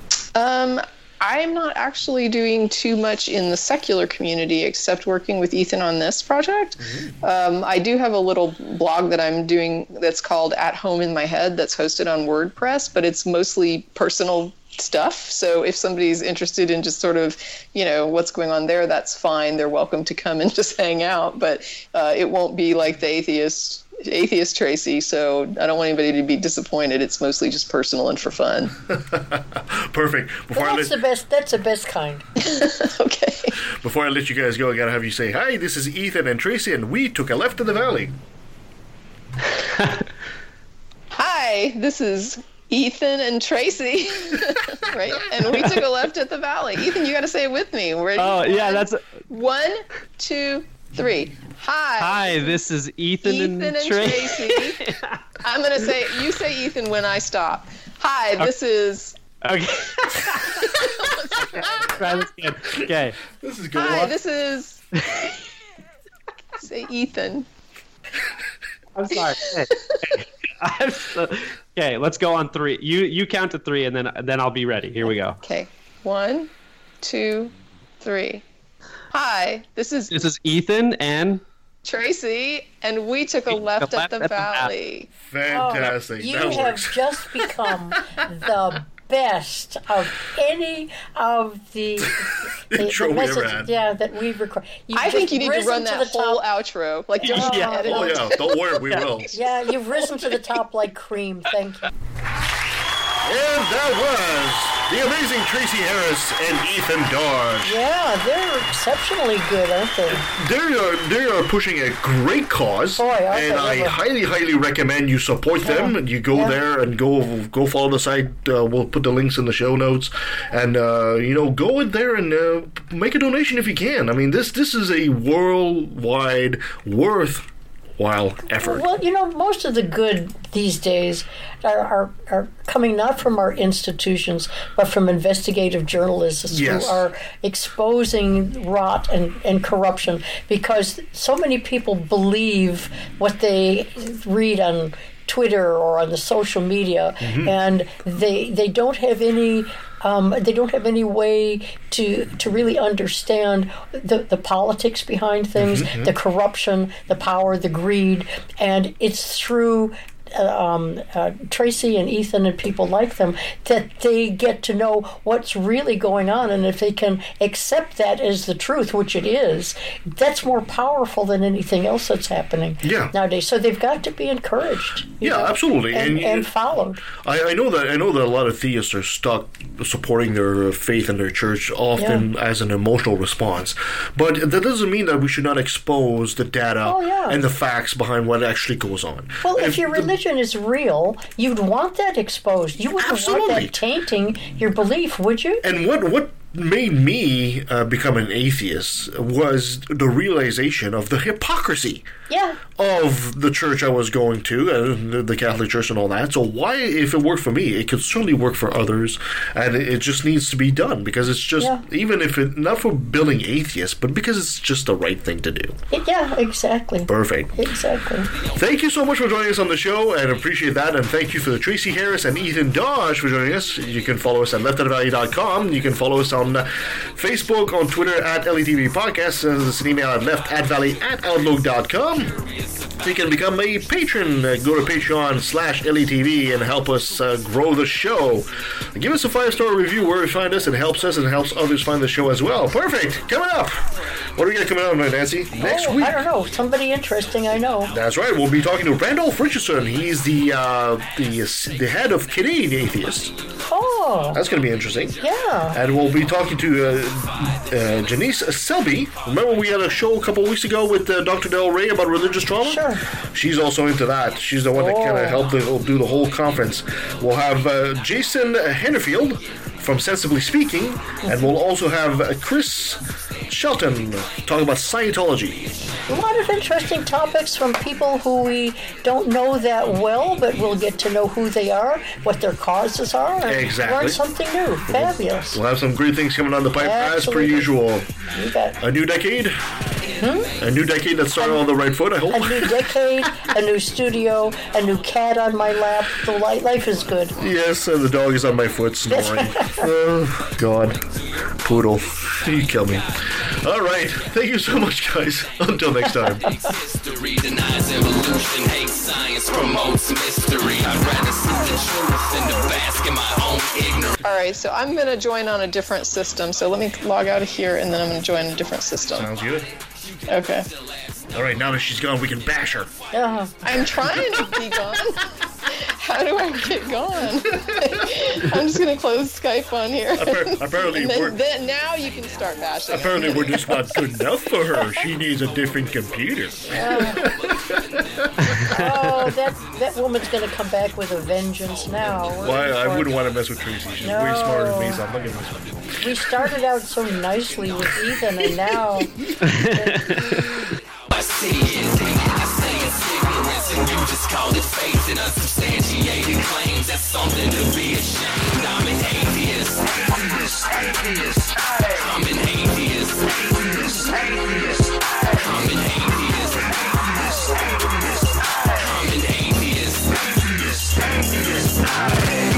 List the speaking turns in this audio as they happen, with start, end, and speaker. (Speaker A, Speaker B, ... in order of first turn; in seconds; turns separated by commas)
Speaker A: 0.3-28.7, Speaker B: 6.8-7.1, Speaker B: 28.9-30.9, Speaker C: 30.5-32.2, Speaker A: 32.4-33.5, Speaker B: 33.6-38.1, Speaker A: 41.1-52.5, Speaker D: 48.2-49.0, Speaker D: 52.0-55.2, Speaker A: 53.2-54.8, Speaker A: 55.4-59.2, Speaker D: 59.4-63.2, Speaker A: 60.7-61.9, Speaker B: 61.6-61.9, Speaker B: 63.3-64.1, Speaker A: 63.7-64.8, Speaker A: 66.6-67.5, Speaker D: 69.0-75.4, Speaker A: 75.0-76.5, Speaker A: 77.0-78.4, Speaker A: 79.1-80.2, Speaker D: 80.1-81.4, Speaker A: 81.8-85.1, Speaker D: 83.5-84.7, Speaker B: 85.3-87.0, Speaker C: 85.5-96.4, Speaker B: 92.7-93.7, Speaker A: 94.9-98.8, Speaker C: 97.2-98.2, Speaker D: 97.4-97.7, Speaker B: 97.7-99.3, Speaker C: 99.3-101.9, Speaker B: 103.2-107.8, Speaker C: 107.6-110.2, Speaker B: 110.1-127.5, Speaker C: 113.0-114.0, Speaker C: 115.6-116.5, Speaker B: 128.0-128.8, Speaker C: 128.6-177.0, Speaker B: 136.5-137.0, Speaker B: 147.2-147.5, Speaker B: 155.6-156.1, Speaker B: 172.8-173.1, Speaker B: 175.2-176.5, Speaker B: 177.1-190.1, Speaker C: 182.0-182.2, Speaker C: 186.8-187.4, Speaker C: 189.4-195.6, Speaker B: 192.9-193.8, Speaker B: 195.6-202.1, Speaker C: 202.3-202.6, Speaker B: 202.8-215.7, Speaker C: 215.9-218.3, Speaker B: 217.1-217.5, Speaker B: 218.5-232.4, Speaker E: 230.8-231.2, Speaker E: 231.9-233.4, Speaker B: 233.0-246.2, Speaker C: 245.6-247.9, Speaker B: 247.9-253.3, Speaker E: 251.0-255.3, Speaker C: 253.7-254.4, Speaker B: 254.3-255.2, Speaker C: 255.2-255.8, Speaker B: 255.7-275.7, Speaker E: 255.9-260.1, Speaker C: 262.6-263.0, Speaker C: 264.7-265.5, Speaker C: 271.2-271.6, Speaker E: 275.5-277.3, Speaker C: 276.1-285.6, Speaker B: 283.5-284.2, Speaker B: 284.9-288.1, Speaker C: 286.8-287.7, Speaker C: 288.3-288.8, Speaker B: 288.8-289.6, Speaker C: 290.2-290.5, Speaker B: 290.6-292.9, Speaker C: 291.4-291.6, Speaker C: 292.3-297.3, Speaker B: 297.4-301.0, Speaker C: 299.1-299.9, Speaker E: 301.1-304.6, Speaker B: 301.5-306.5, Speaker E: 305.4-314.2, Speaker A: 314.2-319.3, Speaker E: 317.6-323.5, Speaker B: 319.1-319.7, Speaker A: 320.3-320.7, Speaker B: 321.3-322.9, Speaker C: 323.1-323.5, Speaker A: 323.6-333.6, Speaker B: 330.1-331.4, Speaker E: 331.6-333.6, Speaker B: 332.9-337.8, Speaker E: 334.3-338.3, Speaker C: 336.7-337.2, Speaker D: 338.6-338.9, Speaker C: 338.7-343.1, Speaker E: 338.9-344.4, Speaker B: 342.4-345.6, Speaker C: 344.0-345.0, Speaker E: 345.3-346.0, Speaker C: 346.0-349.1, Speaker E: 346.6-348.0, Speaker D: 349.4-350.5, Speaker C: 349.7-350.6, Speaker E: 351.1-360.1, Speaker E: 360.8-364.5, Speaker E: 365.2-367.1, Speaker E: 368.7-370.9